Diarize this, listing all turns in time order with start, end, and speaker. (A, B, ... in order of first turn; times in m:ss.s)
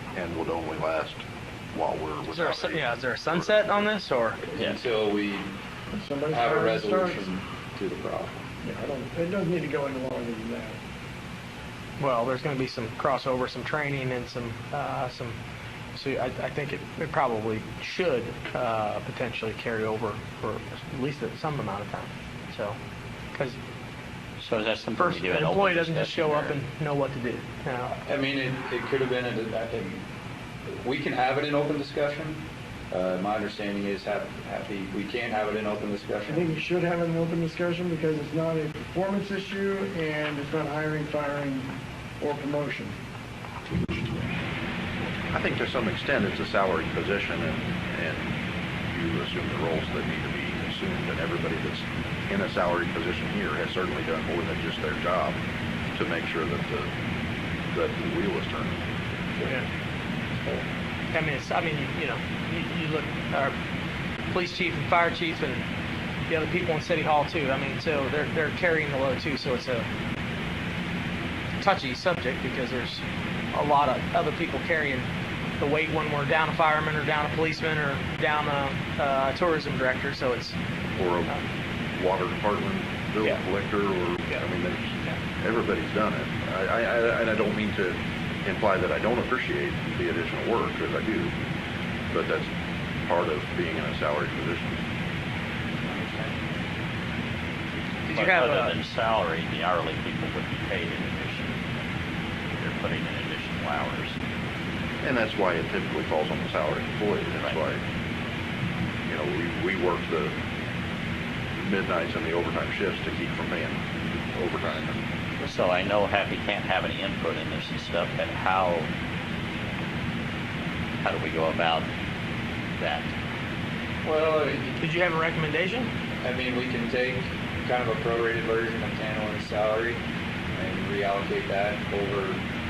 0:00.1-0:03.9 A
0:02.3-0:04.4 B
0:04.5-0:05.5 C
0:05.9-0:07.3 D
0:06.3-0:08.4 C
0:08.6-0:10.8 D
0:12.0-0:15.4 B
0:15.9-0:22.8 B
0:24.4-0:26.6 E
0:25.0-0:27.9 B
0:28.0-0:30.0 C
0:30.8-0:36.5 C
0:36.3-0:43.0 D
0:45.3-0:48.3 A
0:48.9-0:55.4 A
0:55.9-0:56.9 A
0:57.7-0:58.8 A
1:00.4-1:00.6 D
1:01.1-1:03.5 B
1:04.3-1:05.6 B
1:06.3-1:09.9 B
1:11.6-1:15.1 B
1:15.6-1:20.6 B
1:20.9-1:21.4 A
1:21.9-1:31.3 A
1:32.1-1:32.5 A
1:33.0-1:34.8 A
1:35.9-1:36.3 C
1:38.1-1:38.7 B
1:38.1-1:41.6 E
1:42.6-1:44.1 E
1:45.0-1:47.8 A
1:49.1-1:50.3 A
1:51.6-1:53.8 A
1:54.3-1:55.0 A
1:55.4-1:58.9 E
2:01.0-2:01.9 E
2:02.8-2:03.1 E
2:04.0-2:04.8 C
2:04.8-2:05.9 B
2:06.2-2:10.0 C
2:10.5-2:12.4 C